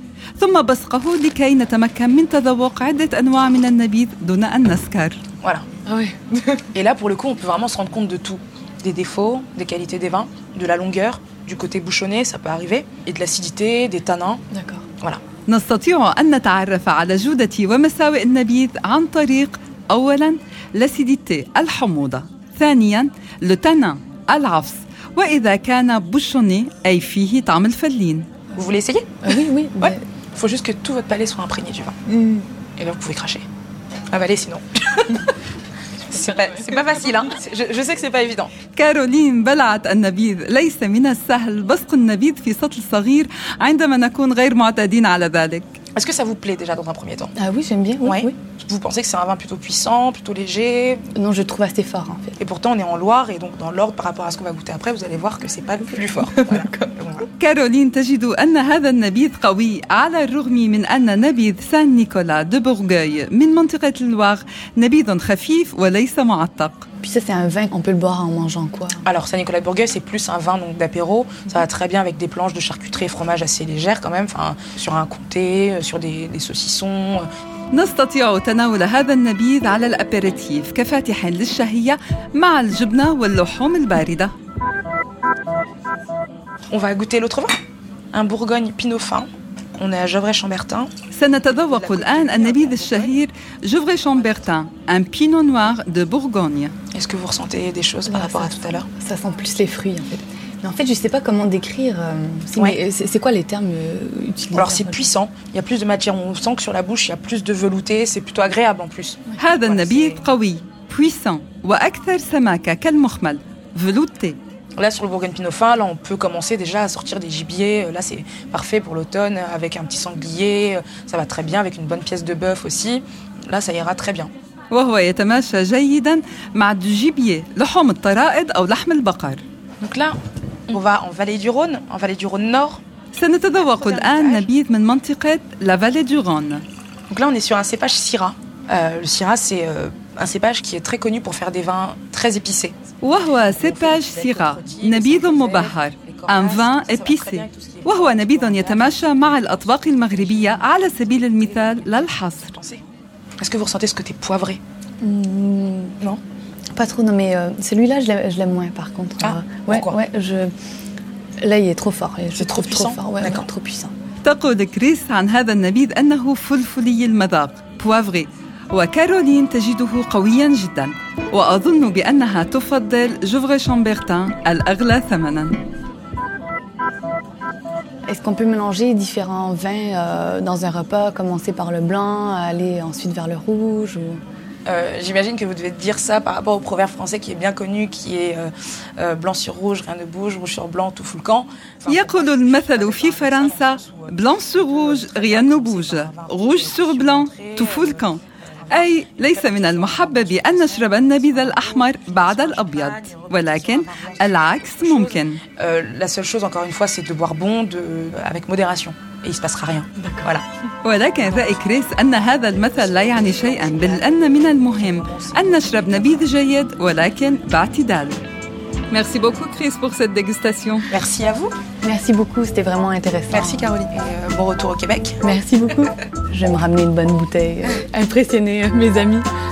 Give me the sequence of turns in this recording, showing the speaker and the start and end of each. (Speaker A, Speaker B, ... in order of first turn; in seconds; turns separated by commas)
Speaker A: 0.4-5.2, Speaker B: 5.9-6.6, Speaker C: 6.7-14.4, Speaker B: 14.5-14.8, Speaker A: 15.5-28.3, Speaker C: 28.5-32.0, Speaker B: 29.2-30.0, Speaker B: 32.1-32.5, Speaker C: 32.8-33.4, Speaker C: 34.1-35.3, Speaker C: 36.1-38.5, Speaker A: 38.7-45.7, Speaker C: 45.9-47.3, Speaker B: 47.4-48.4, Speaker C: 48.0-51.0, Speaker B: 51.1-52.4, Speaker C: 52.4-57.3, Speaker B: 56.2-56.9, Speaker A: 57.4-66.8, Speaker B: 67.0-69.0, Speaker C: 69.0-77.3, Speaker A: 77.7-84.3, Speaker C: 86.7-87.6, Speaker C: 88.1-90.9, Speaker A: 91.1-96.7, Speaker C: 91.5-93.2, Speaker C: 94.2-94.5, Speaker C: 96.9-98.9, Speaker B: 98.1-105.1, Speaker C: 104.5-110.3, Speaker A: 109.4-114.4, Speaker C: 114.8-124.3, Speaker A: 124.7-129.4, Speaker C: 129.8-130.2, Speaker C: 130.7-132.8, Speaker A: 133.1-136.6, Speaker C: 133.5-134.5, Speaker C: 137.1-142.8, Speaker A: 143.0-152.5, Speaker C: 143.4-152.8, Speaker C: 153.4-154.6, Speaker B: 155.0-155.9, Speaker B: 156.7-160.5, Speaker C: 159.2-160.0, Speaker B: 161.4-163.9, Speaker C: 162.3-163.5, Speaker A: 164.2-175.6, Speaker B: 178.1-184.2, Speaker C: 184.7-210.4, Speaker A: 191.9-205.4, Speaker B: 210.0-210.3, Speaker A: 210.8-218.2, Speaker C: 211.2-216.3, Speaker A: 218.9-220.9, Speaker C: 220.9-221.6, Speaker B: 221.8-223.7, Speaker C: 223.3-225.2, Speaker B: 225.2-229.3